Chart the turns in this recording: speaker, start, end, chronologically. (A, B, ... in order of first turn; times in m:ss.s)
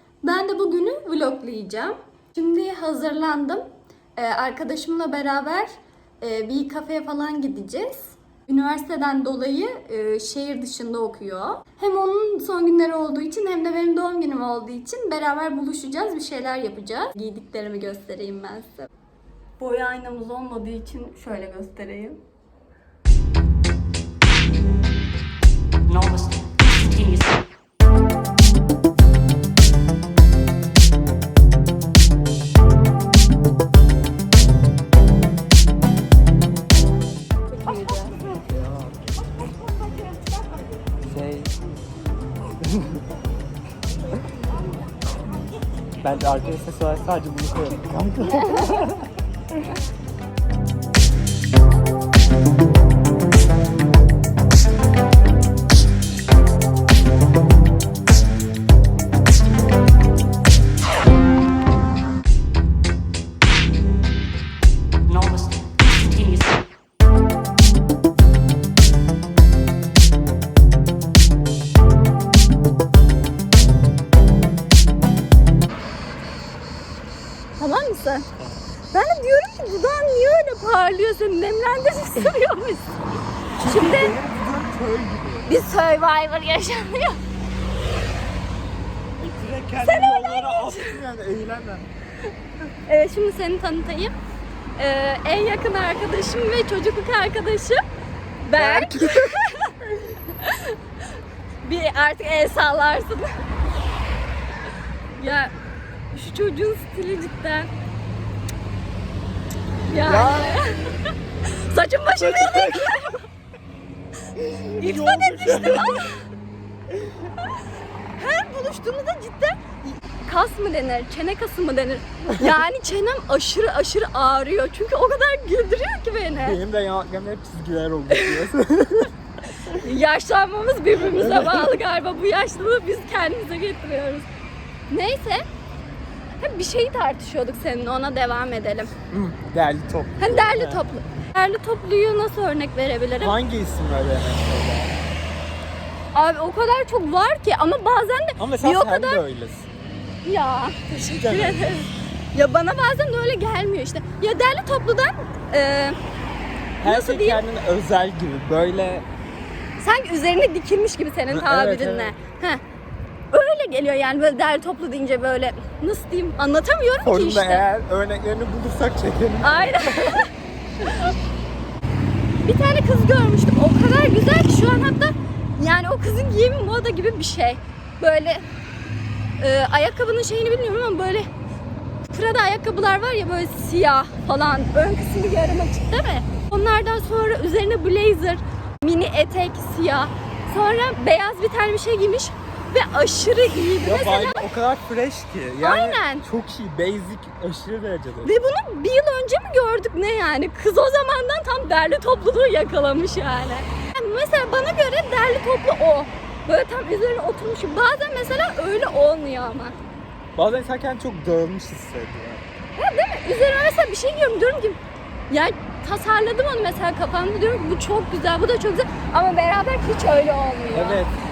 0:00.2-0:18.9 A
0:19.6-0:22.2 A
0:25.9-0:27.4 B
0:37.5-0:38.2 A
0:38.5-0:38.9 C
0:41.0-0:41.6 C
0:42.6-0:43.0 C
0:46.0-0:49.1 C
0:48.2-0:49.0 A
1:05.1-1:06.6 B
1:17.6-1:18.3 A
1:18.9-1:23.0 A
1:23.6-1:24.2 A
1:23.6-1:25.8 C
1:25.5-1:27.2 A
1:29.2-1:31.9 C
1:29.8-1:31.0 A
1:32.9-1:34.1 A
1:34.8-1:37.8 A
1:38.4-1:39.7 A
1:38.5-1:39.4 C
1:40.3-1:40.8 A
1:41.6-1:43.4 A
1:45.2-1:45.5 A
1:46.1-1:47.7 A
1:49.9-1:53.2 A
1:50.0-1:50.6 C
1:52.2-1:53.0 C
1:54.4-1:56.1 C
1:54.7-1:56.2 A
1:58.2-2:06.6 A
2:06.4-2:09.1 C
2:08.1-2:08.5 A
2:09.6-2:14.2 A
2:11.0-2:11.8 C
2:14.9-2:15.4 A
2:16.4-2:18.9 A
2:19.1-2:20.9 C
2:20.2-2:23.4 A
2:23.2-2:25.0 C
2:26.1-2:29.2 A
2:28.4-2:29.7 C
2:30.2-2:36.0 A
2:31.1-2:31.8 C
2:36.8-2:39.1 C
2:36.8-2:37.4 A
2:39.8-2:42.6 A
2:41.3-2:42.2 C
2:43.3-2:47.7 A
2:47.0-2:50.2 C
2:49.4-2:50.3 A
2:52.4-2:58.4 A
2:59.4-3:01.3 A
3:02.0-3:14.4 A
3:13.8-3:18.3 C
3:15.6-3:16.2 A
3:18.2-3:29.8 A
3:30.4-3:32.4 C
3:32.8-3:34.8 A
3:35.3-3:41.0 A
3:40.7-3:41.1 C